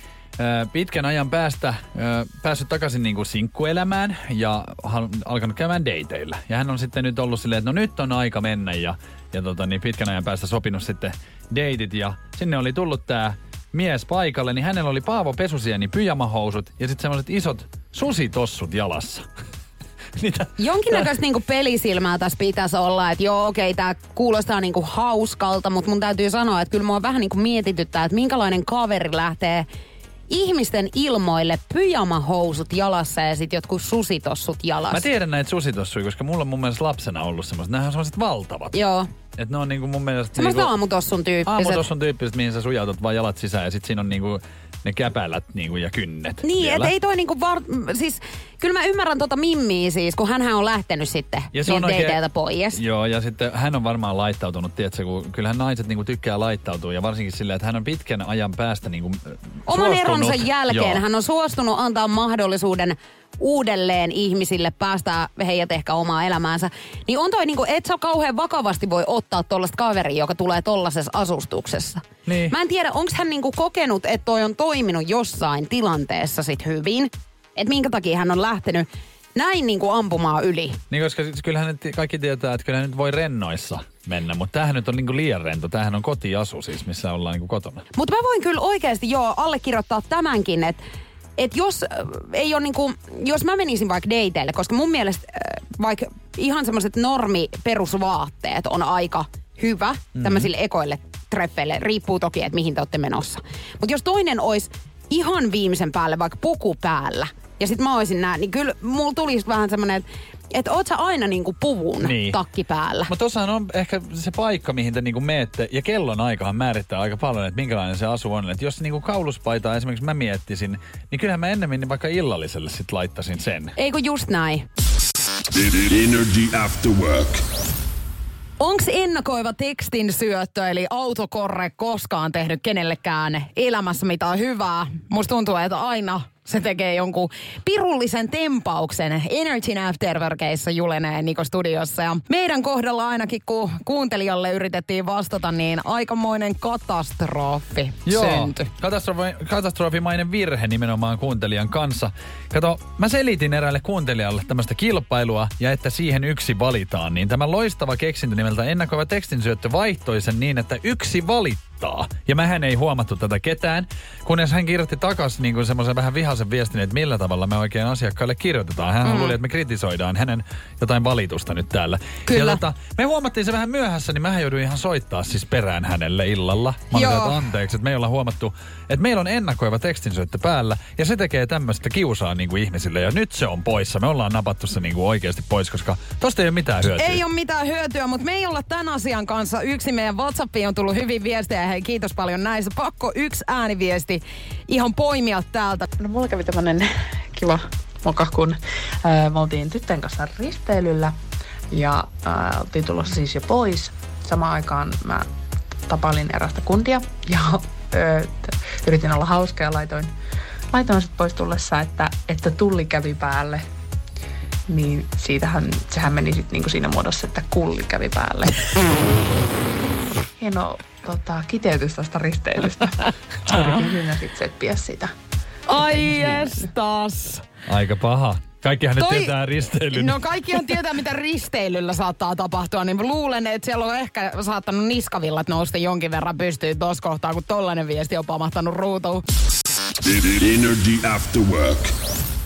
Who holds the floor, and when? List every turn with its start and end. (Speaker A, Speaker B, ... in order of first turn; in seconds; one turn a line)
Speaker A: 0.4-19.2
Speaker A: 20.1-21.1
Speaker B: 20.6-29.7
Speaker B: 30.3-35.0
Speaker A: 34.9-38.7
Speaker B: 38.7-39.1
Speaker A: 39.4-40.7
Speaker B: 40.4-41.8
Speaker A: 41.4-46.9
Speaker B: 46.4-52.8
Speaker A: 51.5-52.2
Speaker A: 52.7-61.0
Speaker B: 59.7-80.8
Speaker A: 72.2-72.5
Speaker A: 80.9-87.8
Speaker B: 87.9-90.8
Speaker B: 91.4-113.1
Speaker A: 100.2-100.5
Speaker A: 112.0-112.4
Speaker A: 113.1-123.7
Speaker B: 123.8-124.6
Speaker C: 125.5-127.3
Speaker D: 128.6-148.6
Speaker A: 148.1-187.2
Speaker B: 172.3-172.6
Speaker B: 176.9-177.4
Speaker D: 186.9-195.8
Speaker E: 196.0-201.1
Speaker E: 201.7-205.2
Speaker E: 205.9-210.1
Speaker E: 210.7-213.6
Speaker E: 214.7-218.6
Speaker E: 220.4-225.1
Speaker D: 225.7-227.4
Speaker A: 227.7-230.2
Speaker B: 230.0-230.9
Speaker D: 230.3-239.2
Speaker B: 231.4-231.8
Speaker B: 233.1-233.9
Speaker B: 236.1-236.6
Speaker C: 240.0-241.8